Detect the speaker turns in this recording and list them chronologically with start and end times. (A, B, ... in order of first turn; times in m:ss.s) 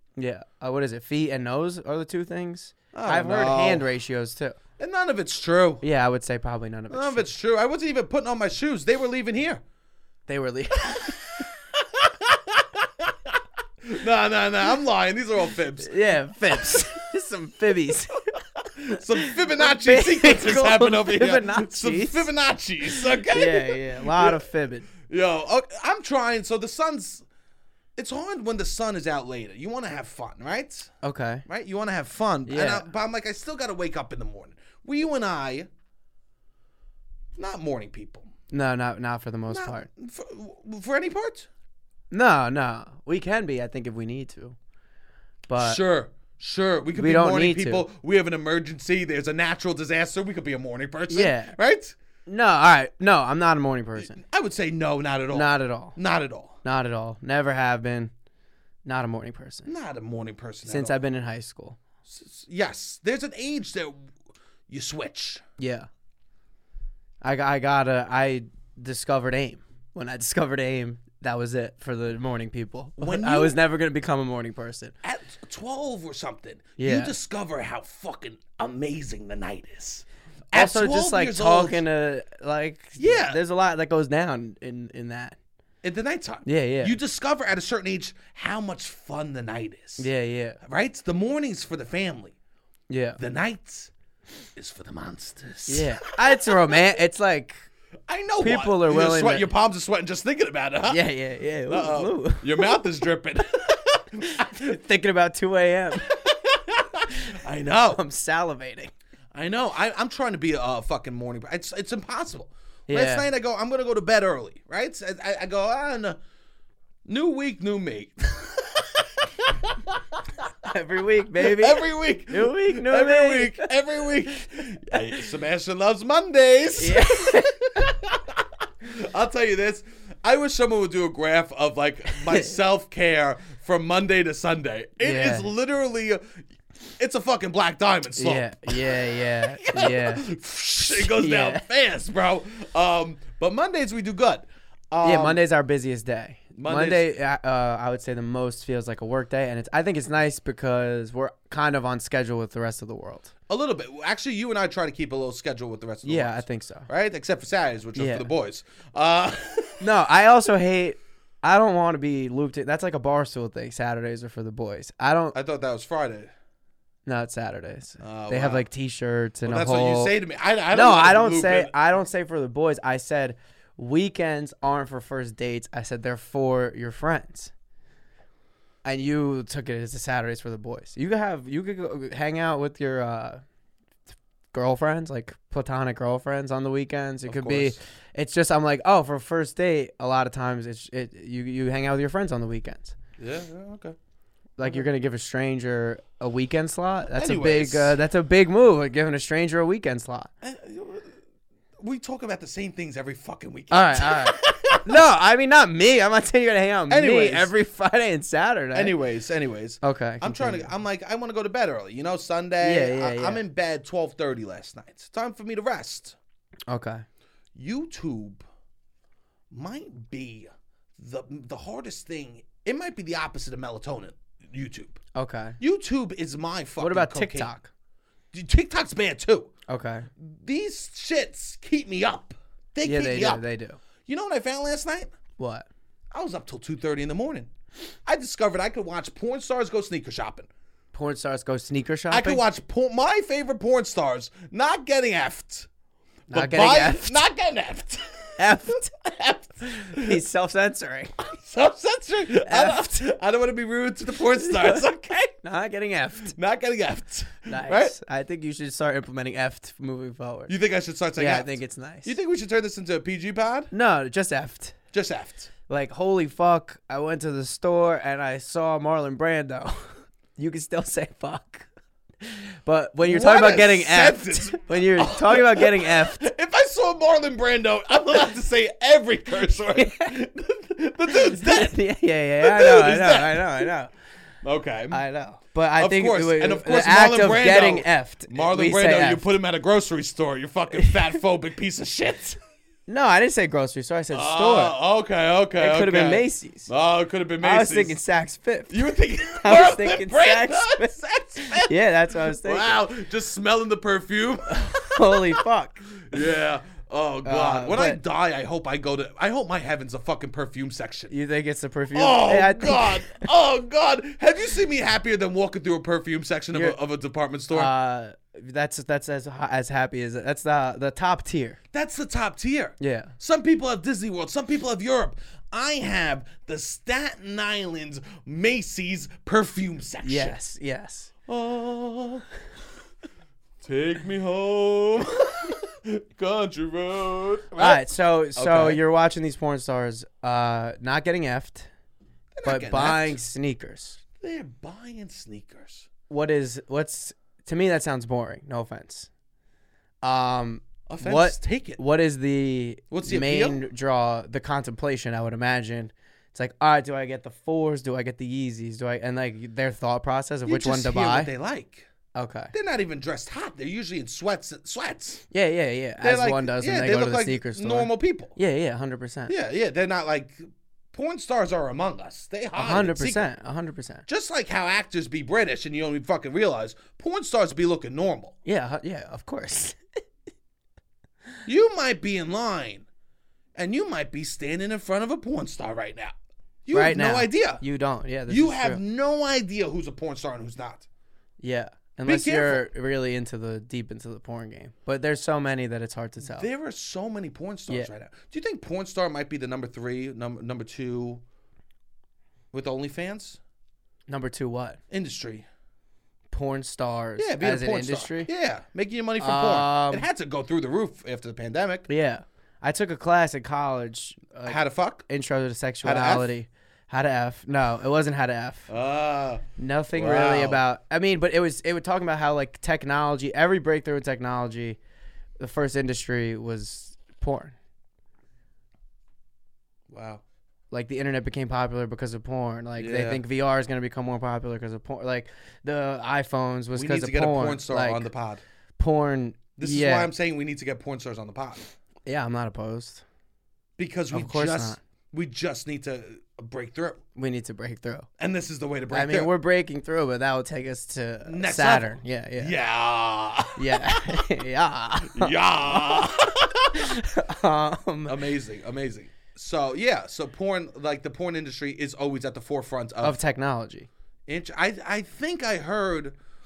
0:00.2-0:04.6 A
0:02.9-0:03.9 B
0:04.8-0:05.8 B
0:05.8-0:07.3 A
0:06.9-0:09.6 B
0:10.3-0:11.2 A
0:10.9-0:16.0 B
0:15.8-0:18.3 A
0:16.5-0:16.8 B
0:18.8-0:24.4 B
0:18.9-0:22.3 A
0:22.8-0:24.9 A
0:25.0-0:27.2 B
0:28.0-0:30.9 B
0:31.0-0:31.4 A
0:31.5-0:35.7 B
0:32.4-0:32.8 A
0:37.4-0:38.3 B
0:38.5-0:39.9 A
0:39.5-0:41.5 B
0:42.1-0:44.6 A
0:45.5-0:45.8 A
0:45.6-0:51.9 B
0:46.9-0:47.8 A
0:51.1-0:51.5 A
0:52.3-0:54.2 A
0:54.2-0:56.5 B
0:55.3-0:56.0 A
0:56.6-0:58.1 A
0:58.8-0:59.7 A
0:59.6-1:01.0 B
1:00.6-1:01.8 A
1:02.0-1:04.1 B
1:04.7-1:05.4 B
1:05.6-1:05.9 A
1:07.2-1:14.9 A
1:13.0-1:13.6 B
1:15.0-1:21.8 B
1:16.8-1:17.1 A
1:20.5-1:25.4 A
1:23.0-1:23.4 B
1:25.8-1:30.1 B
1:26.4-1:27.0 A
1:30.0-1:30.6 A
1:30.6-1:32.3 B
1:32.9-1:33.2 A
1:33.2-1:33.9 B
1:34.6-1:35.9 B
1:35.7-1:37.6 A
1:36.4-1:36.8 B
1:38.1-1:41.0 B
1:38.4-1:39.5 A
1:40.9-1:42.8 A
1:41.7-1:44.7 B
1:44.2-1:46.2 A
1:46.2-1:48.0 B
1:47.9-1:48.9 A
1:49.3-1:56.2 B
1:52.9-1:53.3 A
1:57.0-2:00.2 B
2:00.6-2:03.7 A
2:01.4-2:16.3 B
2:04.3-2:05.2 A
2:06.8-2:07.9 A
2:12.1-2:12.5 A
2:15.0-2:15.5 A
2:17.0-2:25.4 B
2:18.2-2:20.3 A
2:20.8-2:21.6 A
2:25.0-2:33.3 A
2:26.5-2:27.0 B
2:33.5-2:39.8 B
2:36.0-2:36.9 A
2:38.0-2:38.3 A
2:39.8-2:45.3 A
2:45.3-2:46.3 B
2:47.0-2:50.1 A
2:48.0-2:48.6 B
2:49.4-2:51.7 B
2:50.7-2:57.5 A
2:58.8-3:03.4 A
3:04.5-3:12.9 A
3:07.2-3:07.8 B
3:13.2-3:14.0 B
3:14.6-3:20.3 A
3:17.1-3:18.0 B
3:20.4-3:21.1 B
3:21.8-3:25.0 B
3:23.7-3:28.9 A
3:26.9-3:27.5 B
3:28.7-3:36.2 B
3:29.8-3:30.7 A
3:32.6-3:33.4 A
3:36.7-3:37.0 A
3:37.5-3:38.4 B
3:39.5-3:45.0 B
3:45.1-3:45.6 A
3:45.6-3:47.5 B
3:46.8-3:47.7 A
3:48.3-3:49.5 B
3:49.7-3:50.1 A
3:50.2-3:53.4 B
3:52.8-3:53.8 A
3:54.0-3:55.1 B
3:55.4-3:55.6 A
3:56.1-3:57.5 B
3:58.0-4:00.5 B
4:00.9-4:02.4 A
4:02.1-4:05.7 B
4:06.3-4:08.4 B
4:06.3-4:07.2 A
4:08.4-4:09.0 A
4:09.0-4:10.2 B
4:09.6-4:11.2 A
4:11.2-4:15.3 B
4:12.4-4:12.8 A
4:14.4-4:14.8 A
4:15.4-4:16.4 A
4:16.3-4:17.9 B
4:17.5-4:20.5 A
4:20.5-4:23.7 B
4:21.2-4:22.1 A
4:23.7-4:24.8 A
4:24.9-4:25.5 B
4:25.7-4:31.7 A
4:32.2-4:36.2 A
4:33.0-4:41.8 B
4:39.7-4:40.2 A
4:41.1-4:43.9 A
4:42.4-4:43.7 B
4:44.4-4:45.0 B
4:44.9-4:49.3 A
4:45.8-4:52.4 B
4:52.9-4:54.8 A
4:54.1-4:58.0 B
4:55.6-4:56.7 A
4:57.4-5:02.8 A
4:58.7-5:05.4 B
5:04.5-5:06.0 A
5:06.0-5:11.1 B
5:07.2-5:08.0 A
5:11.1-5:13.2 A
5:11.9-5:17.7 B
5:17.5-5:21.6 A
5:21.7-5:30.3 B
5:22.8-5:23.1 A
5:30.0-5:31.1 A
5:31.3-5:32.2 B
5:33.6-5:37.8 B
5:37.6-5:41.7 A
5:38.4-5:38.8 B
5:42.3-5:43.2 B
5:42.4-5:44.0 A
5:44.2-5:45.9 B
5:46.1-5:49.1 A
5:50.0-6:01.3 A
5:50.9-5:51.8 B
5:52.9-5:53.6 B
6:00.4-6:01.9 B
6:02.1-6:02.5 A
6:02.5-6:05.2 B
6:05.3-6:09.3 A
6:06.0-6:08.4 B
6:09.3-6:13.3 B
6:12.6-6:14.0 A
6:14.1-6:18.3 B
6:18.4-6:19.8 A
6:21.4-6:22.8 B
6:23.5-6:26.1 B
6:26.6-6:27.6 B
6:26.7-6:28.8 A
6:28.3-6:30.9 B
6:31.4-6:36.5 A
6:32.0-6:32.6 B
6:36.2-6:41.2 B
6:42.5-6:43.4 B
6:44.1-6:44.8 A
6:44.9-6:45.5 B
6:46.3-6:48.3 A
6:47.2-6:51.9 B
6:49.2-6:50.1 A
6:51.9-6:58.7 A
6:54.4-6:55.0 B
6:55.8-6:56.3 B
6:58.7-7:00.6 B
6:59.6-7:04.8 A
7:05.4-7:07.6 A
7:09.9-7:10.2 B
7:10.7-7:18.1 A
7:12.8-7:13.2 B
7:16.7-7:18.4 B
7:18.8-7:20.1 A
7:19.6-7:21.7 B
7:22.0-7:23.0 A
7:23.8-7:27.0 B
7:24.1-7:24.8 A
7:27.2-7:28.1 A
7:28.2-7:29.3 B
7:28.9-7:32.6 A
7:31.2-7:34.1 B
7:33.6-7:38.2 A
7:35.0-7:36.8 B
7:38.1-7:43.2 B
7:43.0-7:43.9 A
7:44.3-7:46.2 B